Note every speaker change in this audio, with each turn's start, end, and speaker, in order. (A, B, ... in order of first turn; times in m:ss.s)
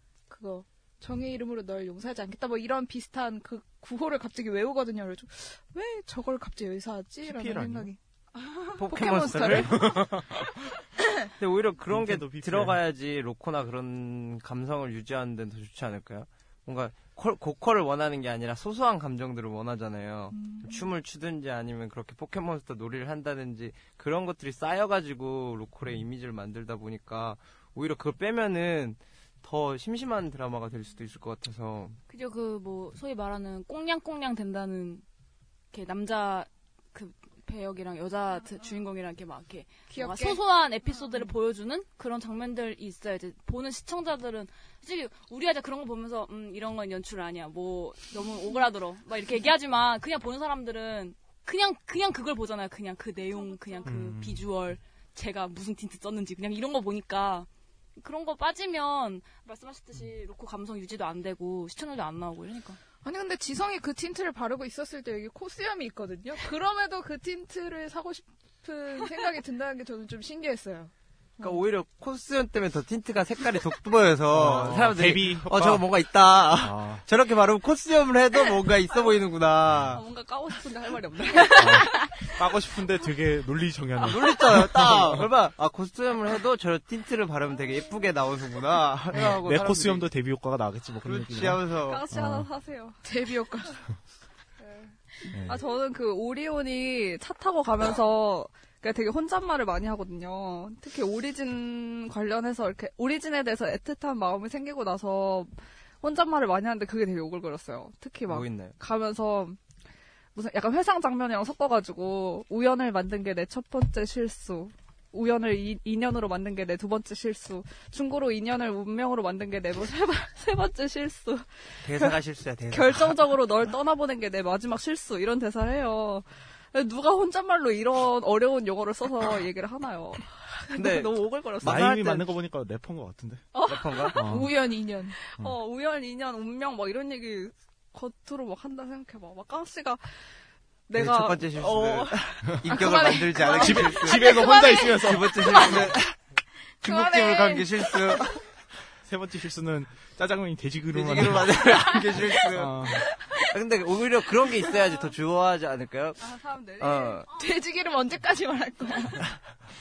0:00.3-0:08.0 A
0:07.2-0:07.9 B
0:08.8-0:09.9 C
0:08.8-0:10.3 A
0:09.3-0:10.5 B
0:11.4-0:32.0 C
0:11.9-0:12.8 B
0:20.3-0:20.9 A
0:32.1-0:35.0 D
0:35.7-1:02.8 D
0:39.9-0:40.4 A
0:53.4-0:53.9 E
0:53.8-0:54.5 B
1:03.0-1:10.9 A
1:11.4-1:20.0 C
1:14.3-1:16.0 B
1:16.5-1:17.0 B
1:19.7-1:20.0 B
1:19.9-1:22.2 E
1:21.5-1:25.3 B
1:24.1-1:30.1 C
1:29.1-1:32.5 B
1:31.0-1:32.0 C
1:31.8-1:33.0 E
1:33.0-1:33.8 A
1:34.6-1:49.6 E
1:35.3-1:35.6 B
1:48.3-1:48.8 C
1:50.4-2:02.2 E
2:01.8-2:03.2 C
2:02.7-2:12.3 E
2:10.7-2:11.2 C
2:11.6-2:13.4 B
2:13.5-2:14.5 E
2:13.6-2:14.2 C
2:14.1-2:14.5 B
2:14.2-2:15.2 A
2:15.2-2:20.1 E
2:20.9-2:25.9 E
2:20.9-2:26.2 C
2:23.5-2:26.0 B
2:26.8-2:28.4 C
2:26.8-2:28.0 A
2:29.0-2:33.1 B
2:30.9-2:33.0 C
2:33.5-2:36.2 C
2:36.2-2:37.2 E
2:36.8-2:37.3 C
2:37.3-2:39.2 A